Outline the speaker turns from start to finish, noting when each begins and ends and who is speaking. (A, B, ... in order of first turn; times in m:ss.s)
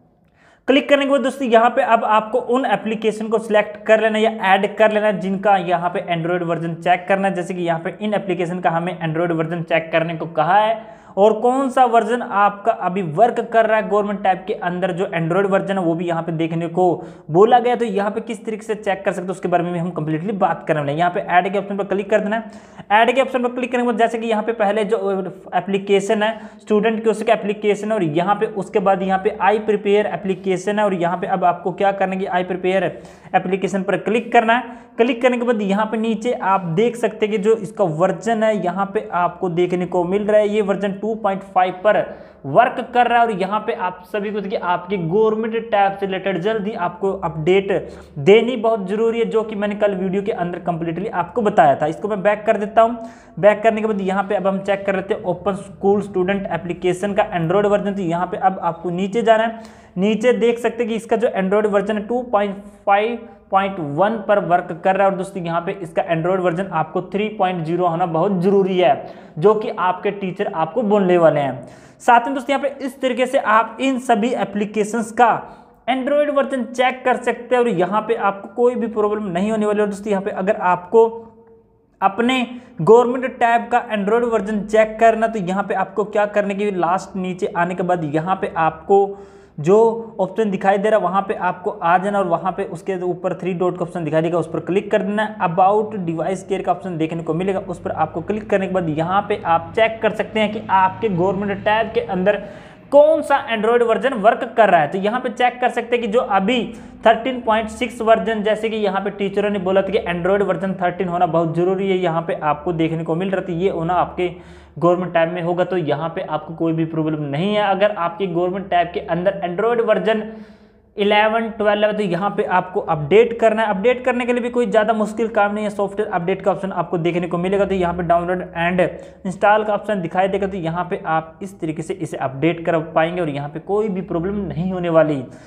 0:00.7-1:21.3 A
1:22.0-2:00.3 A
2:01.0-2:15.3 A